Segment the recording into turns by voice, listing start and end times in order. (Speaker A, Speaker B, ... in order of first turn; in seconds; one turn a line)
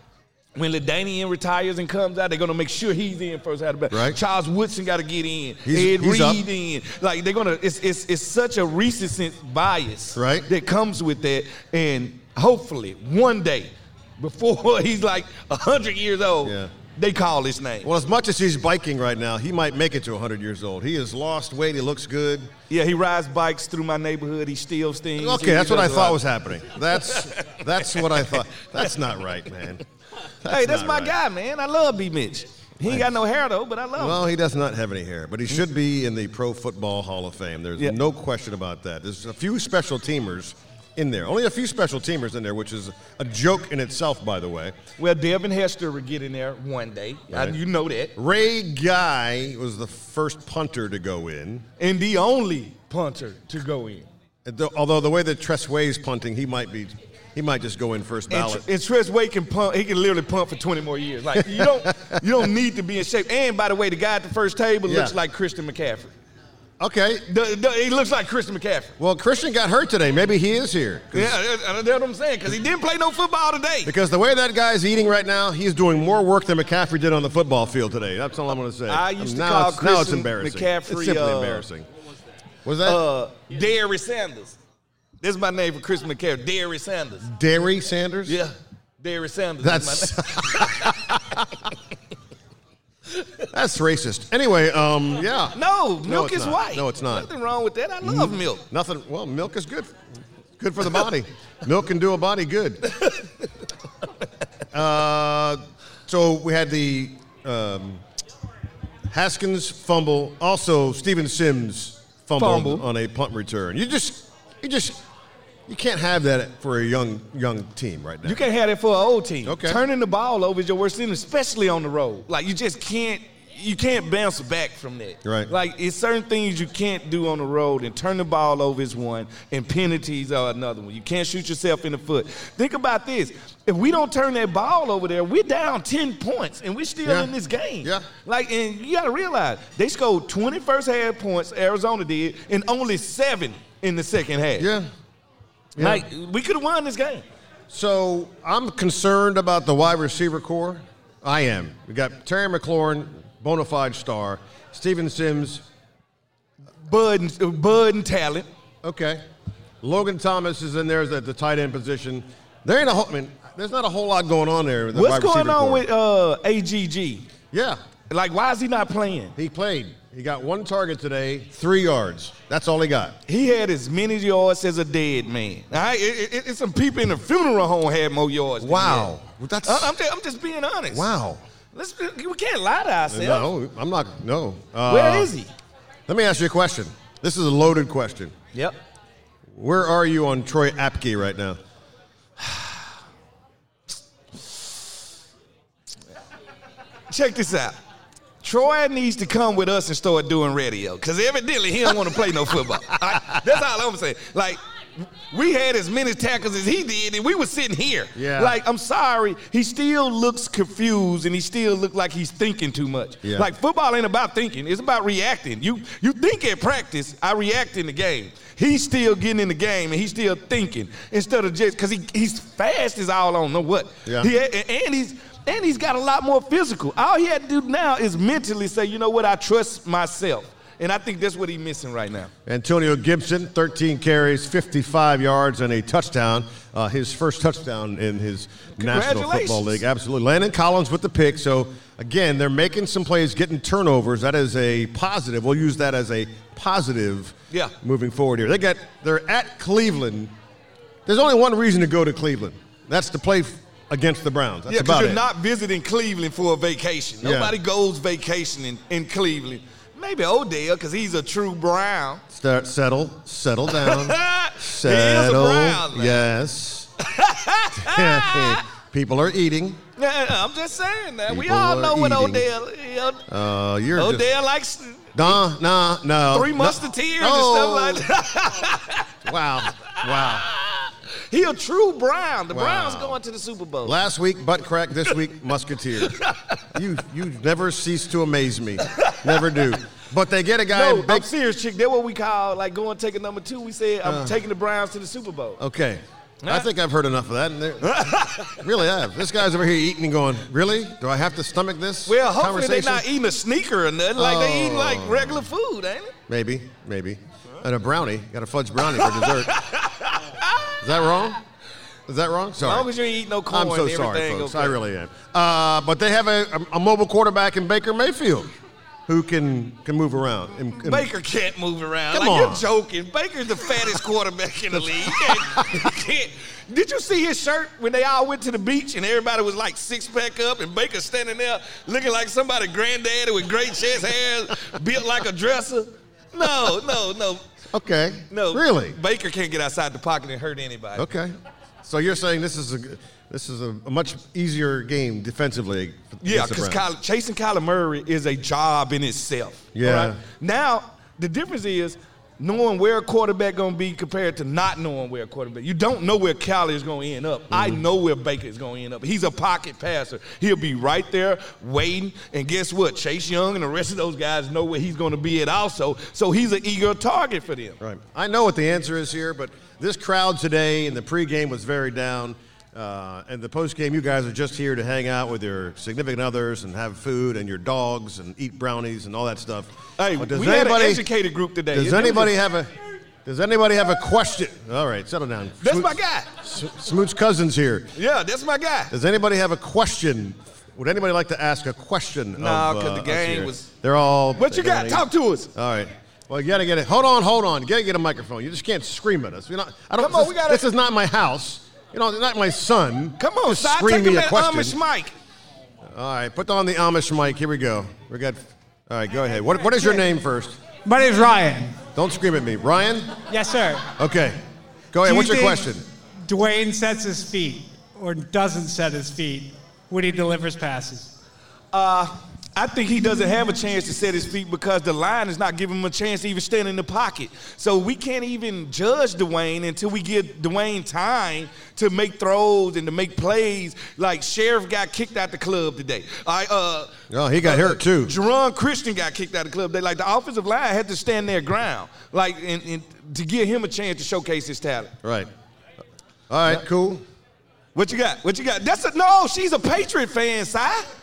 Speaker A: 0.5-17.9
Speaker B: 3.9-4.2
Speaker B: 5.6-6.4
Speaker B: 10.1-10.5
Speaker B: 16.4-16.7
Speaker B: 17.8-22.5
Speaker A: 22.7-26.2
Speaker B: 25.1-29.8
Speaker A: 27.0-28.8
Speaker B: 30.4-31.1
Speaker A: 30.4-34.2
Speaker B: 32.8-33.2
Speaker B: 34.0-44.8
Speaker A: 45.0-48.1
Speaker B: 47.3-47.6
Speaker B: 48.1-51.6
Speaker A: 51.8-54.1
Speaker B: 54.5-58.6
Speaker A: 58.3-66.1
Speaker B: 61.4-62.1
Speaker B: 64.9-65.1
Speaker B: 66.8-67.2
Speaker A: 67.2-68.9
Speaker B: 69.0-71.4
Speaker A: 71.1-73.9
Speaker B: 73.8-81.9
Speaker A: 78.9-81.7
Speaker B: 82.6-83.0
Speaker A: 82.8-84.6
Speaker A: 85.2-87.3
Speaker B: 87.2-88.4
Speaker A: 88.2-91.2
Speaker B: 89.6-91.4
Speaker B: 93.5-97.3
Speaker A: 95.5-98.6
Speaker B: 98.0-99.9
Speaker B: 100.6-102.8
Speaker A: 102.9-103.2
Speaker B: 104.7-108.0
Speaker B: 109.1-115.0
Speaker A: 112.4-112.9
Speaker B: 115.7-118.4
Speaker A: 118.2-144.7
Speaker B: 119.4-119.8
Speaker B: 125.2-125.5
Speaker B: 137.0-138.1
Speaker B: 144.6-144.9
Speaker B: 145.8-146.0
Speaker A: 145.8-147.2
Speaker B: 147.7-155.6
Speaker A: 156.8-158.5
Speaker B: 158.8-159.2
Speaker B: 159.8-165.8
Speaker A: 164.9-167.3
Speaker B: 167.5-167.8
Speaker A: 168.1-169.3
Speaker B: 169.4-173.2
Speaker A: 173.3-179.1
Speaker B: 178.6-179.9
Speaker A: 179.6-181.1
Speaker B: 180.9-181.4
Speaker A: 181.7-183.5
Speaker B: 183.1-185.3
Speaker A: 184.8-185.5
Speaker B: 186.1-188.3
Speaker B: 189.5-191.6
Speaker A: 197.1-197.8
Speaker A: 198.4-232.3
Speaker B: 208.1-208.6
Speaker B: 232.5-250.3
Speaker A: 238.8-239.8
Speaker B: 251.1-255.2
Speaker A: 254.7-262.2
Speaker B: 257.2-257.6
Speaker B: 262.3-266.9
Speaker A: 263.7-266.2
Speaker A: 267.0-268.6
Speaker B: 267.8-269.8
Speaker A: 270.0-273.3
Speaker B: 271.3-272.5
Speaker B: 273.3-274.3
Speaker A: 273.9-275.4
Speaker B: 275.1-278.0
Speaker A: 276.3-279.1
Speaker B: 279.2-280.5
Speaker A: 279.7-284.0
Speaker B: 282.5-283.2
Speaker B: 283.8-286.2
Speaker A: 286.0-286.4
Speaker B: 286.7-291.3
Speaker A: 288.9-289.5
Speaker A: 290.7-295.6
Speaker B: 294.0-294.4
Speaker B: 295.6-303.1
Speaker A: 296.4-296.7
Speaker A: 297.8-298.7
Speaker A: 302.1-306.1
Speaker B: 304.2-305.5
Speaker B: 306.3-309.5
Speaker A: 308.9-310.8
Speaker B: 310.8-311.4
Speaker B: 312.1-312.9
Speaker A: 312.6-314.8
Speaker B: 313.5-318.5
Speaker B: 319.1-321.1
Speaker A: 320.8-337.4
Speaker B: 322.1-322.6
Speaker B: 325.0-325.7
Speaker B: 337.7-339.0
Speaker A: 338.3-341.1
Speaker B: 341.0-341.3
Speaker B: 341.8-346.8
Speaker A: 346.2-367.8
Speaker B: 349.8-350.2
Speaker B: 357.5-357.8
Speaker B: 367.8-381.1
Speaker A: 380.0-382.4
Speaker B: 381.7-387.9
Speaker A: 385.6-386.3
Speaker A: 387.9-388.9
Speaker B: 388.9-404.8
Speaker A: 392.4-393.7
Speaker A: 394.4-395.5
Speaker A: 400.0-400.7
Speaker A: 403.2-405.1
Speaker B: 405.9-410.6
Speaker C: 410.9-411.8
Speaker B: 411.9-413.1
Speaker C: 413.3-413.9
Speaker B: 414.0-414.4
Speaker B: 414.9-415.9
Speaker C: 415.3-415.6
Speaker C: 416.2-421.1
Speaker A: 421.7-444.9
Speaker B: 437.1-438.1
Speaker B: 445.0-445.3
Speaker B: 446.3-447.0
Speaker A: 447.8-450.9